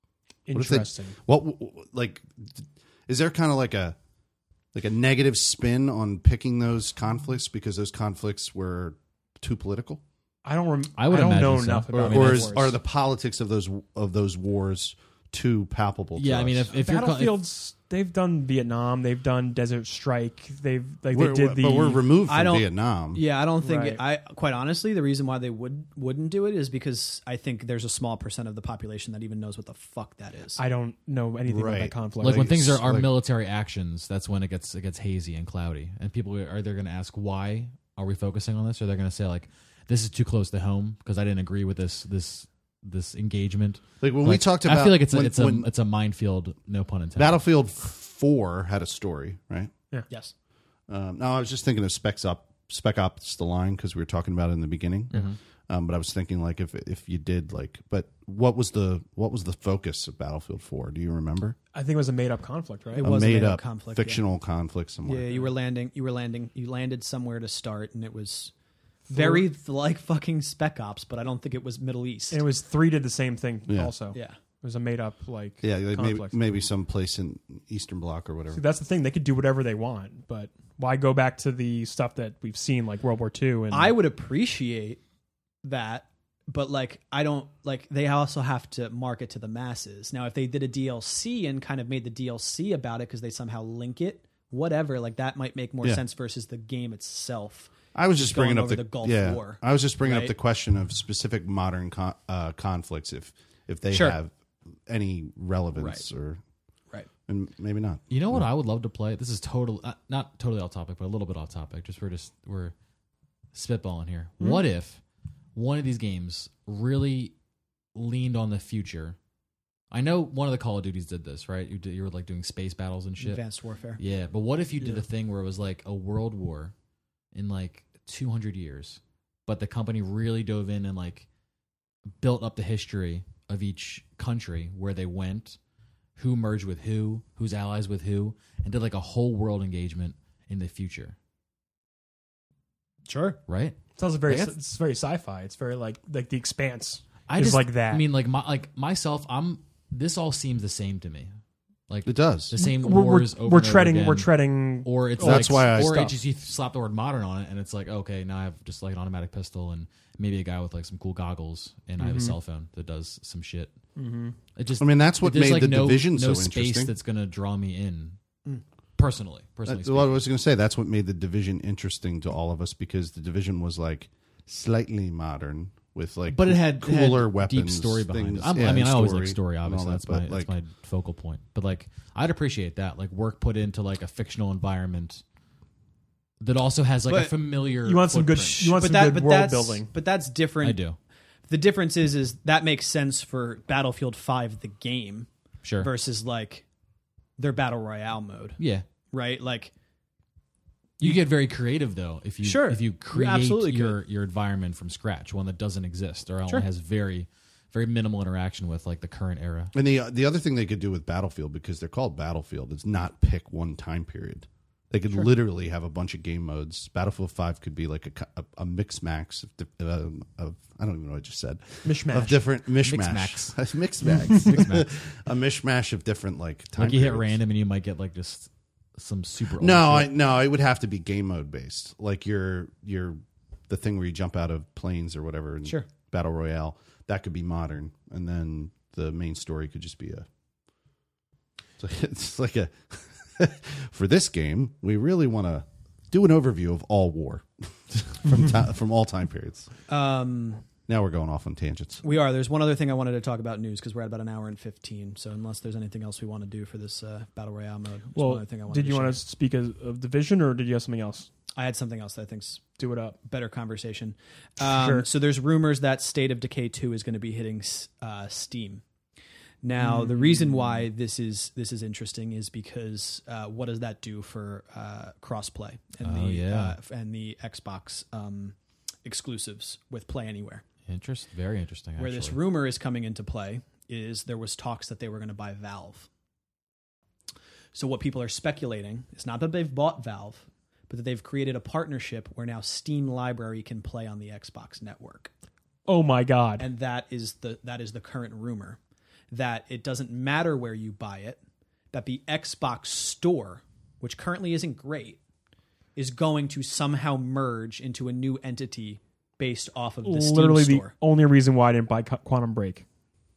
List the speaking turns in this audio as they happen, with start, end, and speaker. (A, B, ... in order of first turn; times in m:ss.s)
0:00.5-0:01.2 A
0:00.5-0:04.0 B
0:04.7-0:10.0 B
0:10.4-0:12.7 A
0:10.9-0:12.6 C
0:11.9-0:16.7 B
0:16.2-0:17.4 C
0:16.7-0:22.0 A
0:21.1-0:23.2 B
0:22.3-0:30.6 D
0:23.6-0:24.0 A
0:30.6-0:32.6 A
0:31.4-0:33.1 B
0:32.2-0:47.4 C
0:44.0-0:45.7 B
0:47.2-0:49.7 B
0:50.9-1:01.6 B
0:55.1-0:55.4 C
1:01.7-1:03.1 A
1:02.9-1:04.2 D
1:03.0-1:05.3 B
1:05.0-1:08.5 D
1:09.1-1:09.5 A
1:09.1-1:12.4 D
1:12.3-1:16.4 A
1:13.7-1:13.9 B
1:14.1-1:14.4 D
1:15.6-1:18.6 B
1:18.5-1:23.9 A
1:23.7-1:25.0 D
1:25.6-1:40.3 D
1:37.9-1:44.3 B
1:43.9-1:44.2 D
1:44.8-1:46.4 B
1:45.8-1:46.0 D
1:47.3-1:48.4 B
1:48.1-1:52.7 C
1:53.5-1:55.0 C
1:55.5-1:57.3 C
1:57.9-1:59.2 C
1:59.9-2:03.4 C
2:03.2-2:04.0 D
2:04.0-2:06.7 C
2:07.3-2:11.2 C
2:12.2-2:15.6 C
2:16.2-2:21.1 C
2:23.1-2:23.4 D
2:23.5-2:23.8 C
2:24.0-2:28.0 A
2:27.3-2:31.3 C
2:31.9-2:43.7 C
2:32.0-2:32.5 B
2:32.6-2:36.1 A
2:35.2-2:36.1 B
2:42.0-2:42.3 A
2:44.0-2:44.4 A
2:44.6-2:48.2 C
2:44.8-2:46.9 B
2:49.0-2:50.2 C
2:49.6-3:00.5 B
2:56.3-3:05.2 C
3:06.4-3:08.8 C
3:07.1-3:07.3 D
3:07.8-3:09.9 A
3:08.7-3:10.8 D
3:10.6-3:11.0 C
3:11.5-3:15.3 D
3:15.6-3:15.9 C
3:15.8-3:16.6 D
3:17.4-3:18.6 D
3:18.6-3:18.8 C
3:19.1-3:19.7 D
3:21.0-3:29.7 C
3:22.4-3:24.0 D
3:29.7-3:47.4 B
3:41.8-3:42.4 A
3:42.8-3:43.6 C
3:44.1-3:44.9 C
3:46.8-3:50.1 C
3:49.6-4:00.3 B
4:01.8-4:09.7 B
4:09.9-4:10.6 D
4:10.9-4:12.0 B
4:12.0-4:19.2 D
4:18.2-4:21.3 A
4:21.6-4:22.6 D
4:22.8-4:23.2 A
4:23.2-4:28.8 D
4:24.6-4:25.0 A
4:29.6-4:40.6 D
4:29.8-4:30.8 A
4:36.0-4:36.8 C
4:40.9-4:42.4 C
4:42.0-4:46.1 D
4:47.7-4:55.3 D
4:55.9-4:56.7 A
4:56.6-4:58.8 D
4:59.3-5:01.4 D
5:01.9-5:05.2 D
5:06.0-5:10.9 D
5:10.0-5:12.8 A